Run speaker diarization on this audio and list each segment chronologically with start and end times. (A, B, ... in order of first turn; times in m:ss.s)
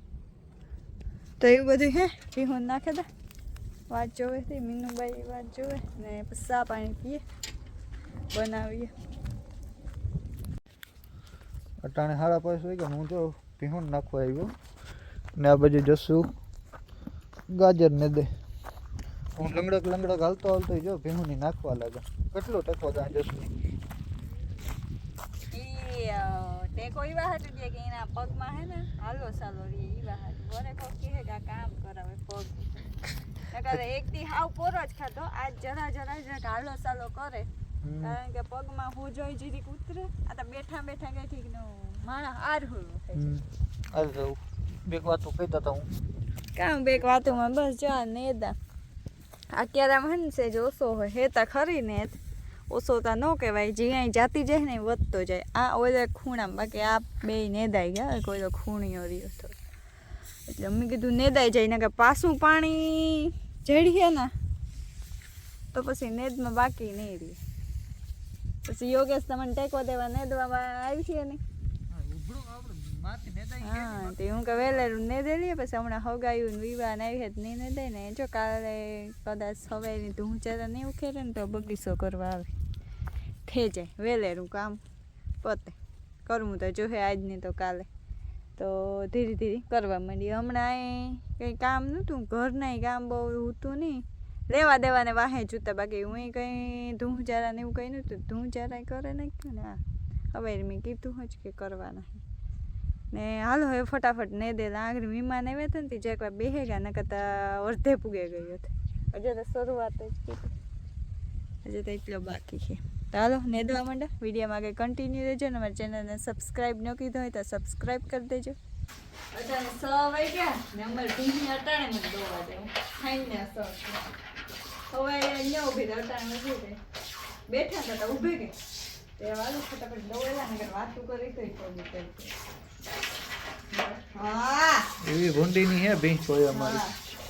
0:01.4-0:03.1 A
0:03.9-0:07.2 A
0:08.3-0:08.9 A
0:11.8-0:14.5 B
0:15.4-0:16.3 B
0:17.5-0:18.3 B
0:19.4-0:23.5 B
0:25.5-0:37.5 A
0:37.8-0:38.2 B
0:38.0-0:43.3 A
0:43.1-0:45.9 B
0:46.5-0:48.6 A
0:49.5-0:52.2 A
0:52.7-0:59.6 A
1:00.5-1:04.3 A
1:05.7-1:07.4 A
1:08.6-1:11.4 A
1:11.9-1:14.9 B
1:13.6-1:22.5 A
1:23.5-1:24.8 A
1:25.4-1:27.9 A
1:28.6-1:39.8 A
1:40.3-1:42.2 A
1:43.1-1:50.5 A
1:51.6-1:58.6 A
1:59.3-2:04.0 A
2:04.9-2:06.8 A
2:07.5-2:08.6 A
2:09.2-2:12.3 A
2:13.7-2:14.9 A
2:15.0-2:16.9 B
2:16.5-2:17.0 A